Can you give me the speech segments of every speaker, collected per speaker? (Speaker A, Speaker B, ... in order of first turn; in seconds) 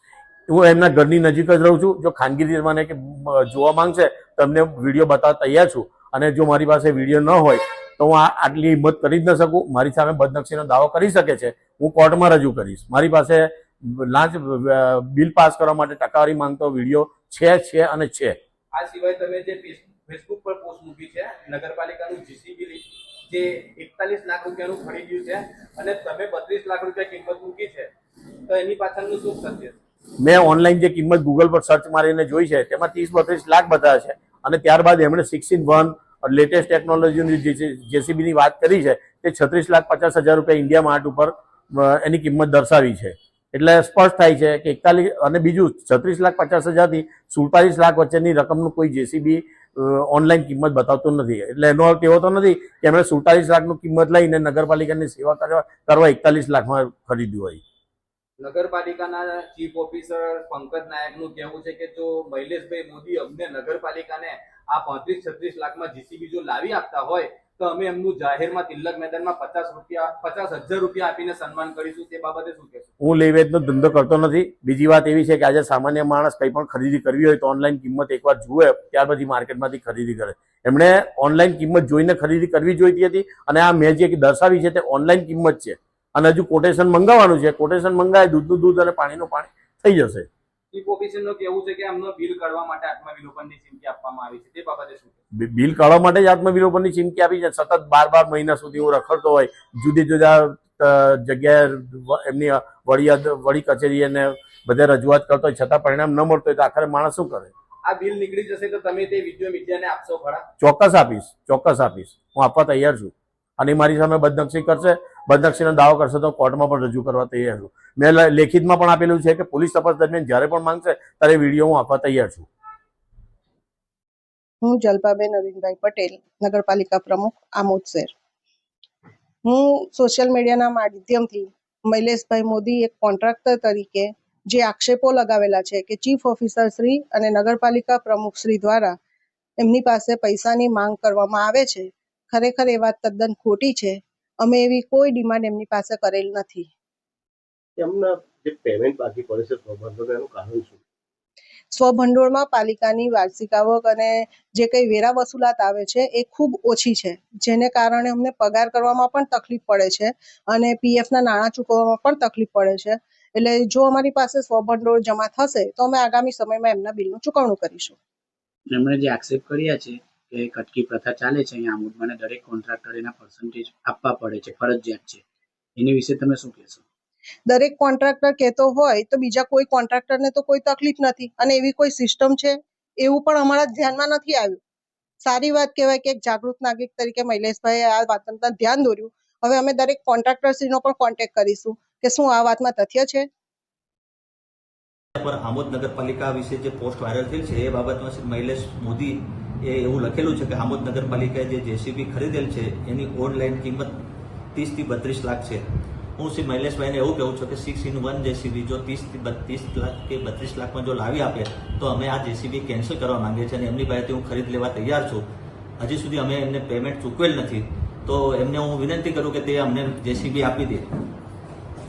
Speaker A: 0.5-18.4, 30.2-57.6, 73.0-90.3, 95.4-107.5, 110.6-122.5
Speaker B: 18.7-27.9, 28.5-29.8, 58.4-72.9, 90.7-95.2, 107.8-110.5
Speaker C: 124.6-128.1, 129.4-139.0, 139.6-146.7, 151.7-168.0, 177.5-184.6, 185.2-193.3
Speaker D: 147.8-150.8
Speaker E: 168.7-175.2, 175.8-176.8
Speaker F: 195.2-203.9, 204.6-205.6, 206.2-215.2, 215.8-220.9